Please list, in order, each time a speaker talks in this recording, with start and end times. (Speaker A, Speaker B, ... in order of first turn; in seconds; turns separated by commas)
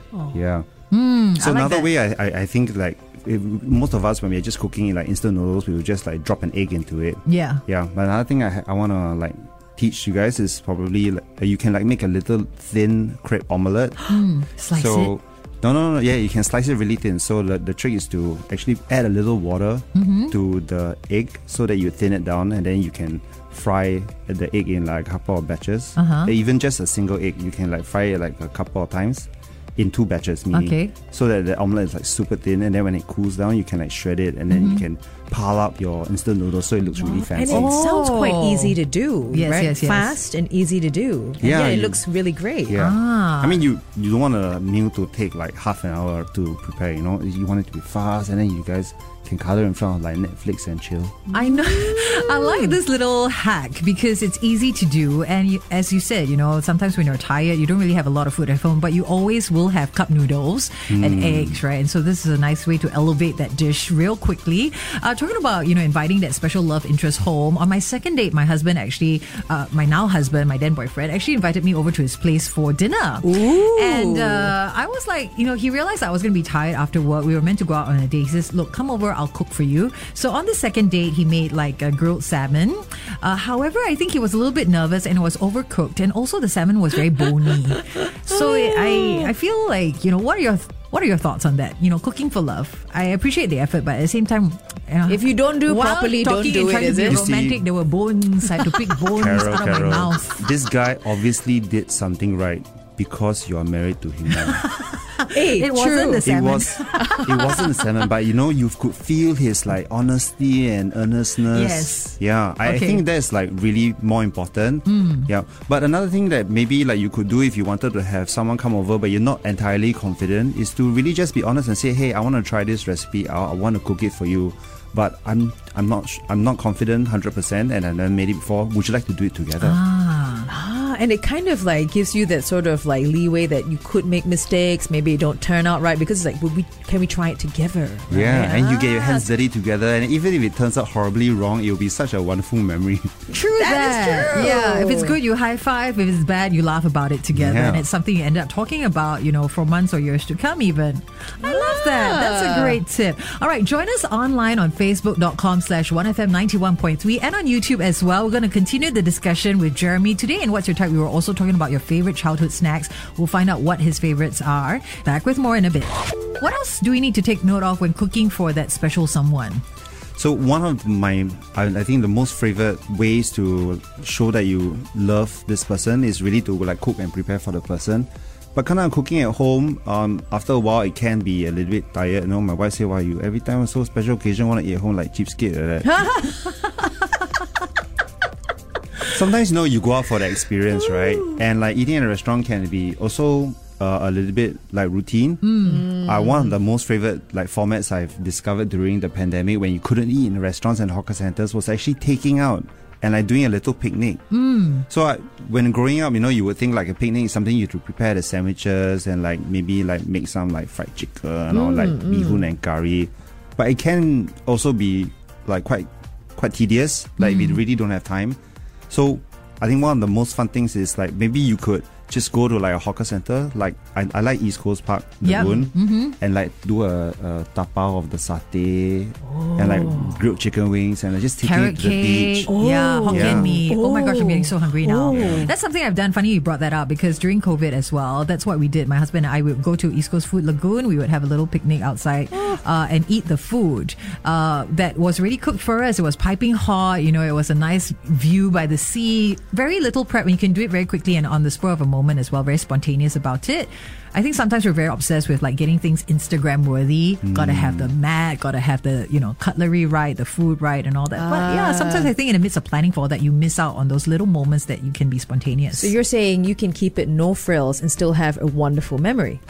Speaker A: 0.1-0.4, Speaker B: 0.3-0.7, Speaker C: 0.9-1.9, Speaker B: 1.4-14.0, Speaker C: 7.3-7.6, Speaker C: 14.1-15.1, Speaker B: 14.7-37.8, Speaker C: 19.9-20.4, Speaker C: 26.0-26.3, Speaker C: 30.5-30.9, Speaker C: 34.5-34.9, Speaker A: 37.0-42.8, Speaker C: 37.4-38.8, Speaker C: 39.3-40.1, Speaker B: 41.4-42.0, Speaker B: 42.7-51.2, Speaker C: 42.7-43.7, Speaker A: 51.3-52.7, Speaker C: 51.3-100.5, Speaker B: 60.9-61.6, Speaker A: 73.2-74.5, Speaker A: 88.6-89.3, Speaker A: 95.1-97.2, Speaker B: 97.1-97.6, Speaker B: 99.1-104.7, Speaker C: 104.4-107.3, Speaker A: 105.3-107.7, Speaker B: 106.2-129.8, Speaker C: 111.5-113.0, Speaker C: 114.9-115.3, Speaker C: 129.6-130.5, Speaker A: 130.5-139.3, Speaker B: 138.1-143.1, Speaker C: 143.3-169.6, Speaker A: 143.6-145.2, Speaker B: 147.3-147.9, Speaker A: 151.4-152.8, Speaker B: 170.2-186.0, Speaker A: 185.9-186.7, Speaker B: 189.1-204.3, Speaker C: 195.4-195.9, Speaker A: 195.7-196.5, Speaker C: 204.3-204.9, Speaker B: 204.9-218.4, Speaker A: 211.5-212.4, Speaker C: 217.2-217.6, Speaker B: 218.9-232.5, Speaker C: 225.2-226.2, Speaker A: 229.3-230.2, Speaker C: 231.4-265.9, Speaker A: 232.5-235.5, Speaker B: 233.1-233.6, Speaker B: 235.1-235.5, Speaker B: 257.2-257.9, Speaker A: 261.2-262.1, Speaker A: 265.7-269.4